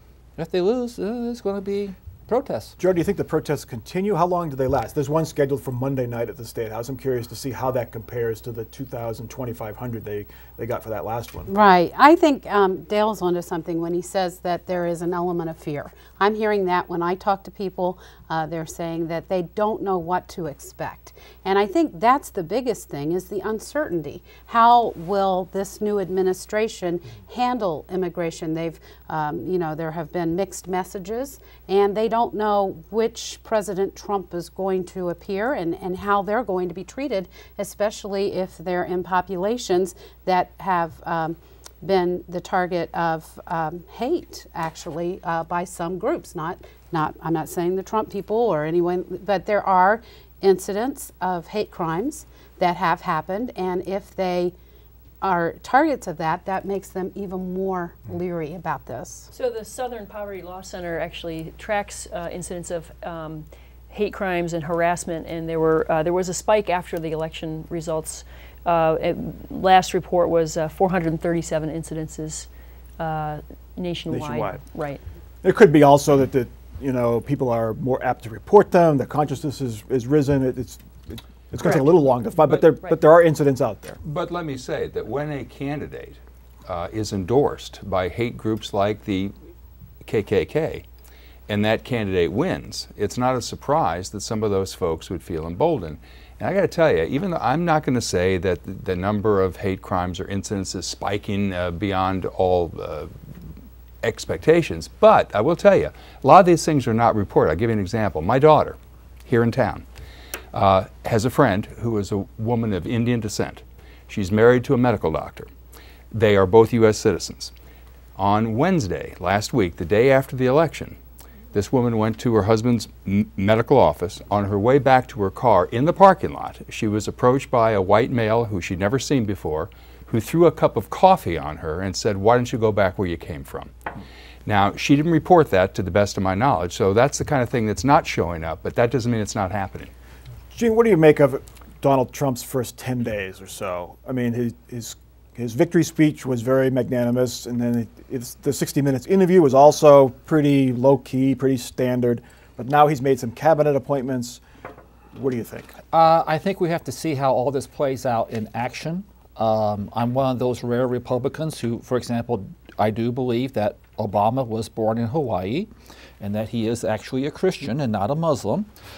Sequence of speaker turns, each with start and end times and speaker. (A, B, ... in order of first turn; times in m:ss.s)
0:00.4-0:02.8 A
0:02.8-0:11.5 B
0:11.5-0:54.5 C
0:55.2-0:59.3 C
0:59.3-1:12.5 D
1:13.0-1:15.0 D
1:14.1-1:14.6 B
1:15.4-1:24.0 B
1:22.7-1:23.0 D
1:24.0-1:29.3 E
1:30.0-1:30.8 E
1:31.5-1:43.1 E
1:44.0-1:49.8 E
1:50.5-1:55.5 E
1:56.1-1:57.5 E
1:58.2-2:01.0 E
2:01.5-2:13.7 E
2:14.4-2:19.9 E
2:20.5-2:34.4 B
2:35.1-2:35.7 B
2:35.9-2:45.7 A
2:46.2-2:48.7 A